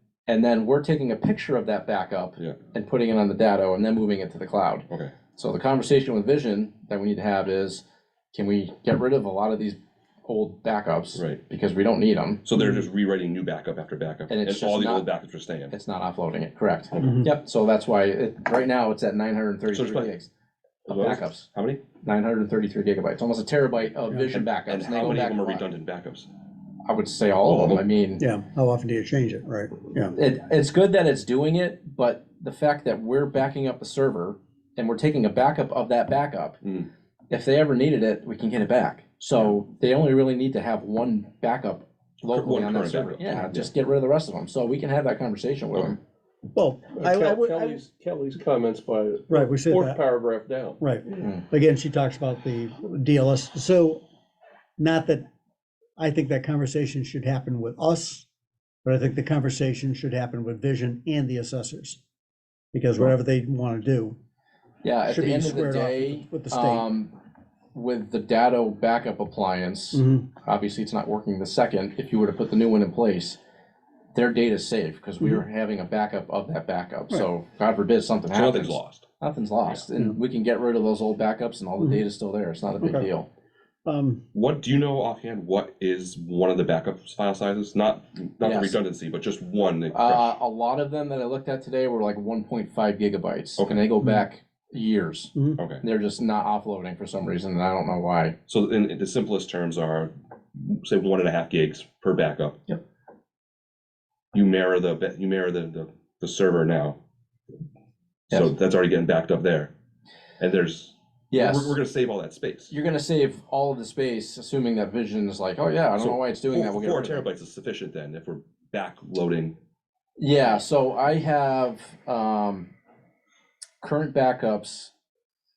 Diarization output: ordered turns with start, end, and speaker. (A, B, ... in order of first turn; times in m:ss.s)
0:00.3-0:12.4 A
0:12.4-0:15.7 B
0:14.3-0:15.1 A
0:15.7-0:20.3 A
0:17.0-0:17.3 C
0:19.7-0:20.1 B
0:20.9-0:21.5 A
0:20.9-0:21.8 B
0:22.0-0:25.7 A
0:24.3-0:26.3 B
0:26.9-0:28.2 A
0:27.4-0:27.8 B
0:28.2-0:30.2 C
0:30.2-0:36.6 A
0:37.3-0:46.0 A
0:42.2-0:43.7 B
0:46.5-0:47.8 C
0:46.9-0:50.8 D
0:49.3-0:50.0 C
0:50.8-0:54.0 C
0:51.2-0:51.4 A
0:54.8-0:55.2 C
0:56.0-0:58.3 C
0:58.8-1:02.0 C
1:02.7-1:04.2 C
1:04.8-1:07.1 A
1:05.1-1:06.9 C
1:07.7-1:13.4 A
1:10.0-1:10.3 C
1:14.2-1:23.3 A
1:18.3-1:19.0 B
1:22.8-1:23.1 C
1:23.8-1:24.2 C
1:24.3-1:30.4 B
1:28.4-1:28.8 A
1:29.9-1:38.4 A
1:35.6-1:35.8 B
1:38.5-1:42.6 B
1:44.3-1:47.0 B
1:48.3-1:49.7 B
1:50.4-1:52.7 B
1:51.3-1:51.8 A
1:52.7-1:57.3 A
1:56.0-1:59.6 B
2:00.2-2:02.7 A
2:03.8-2:04.9 A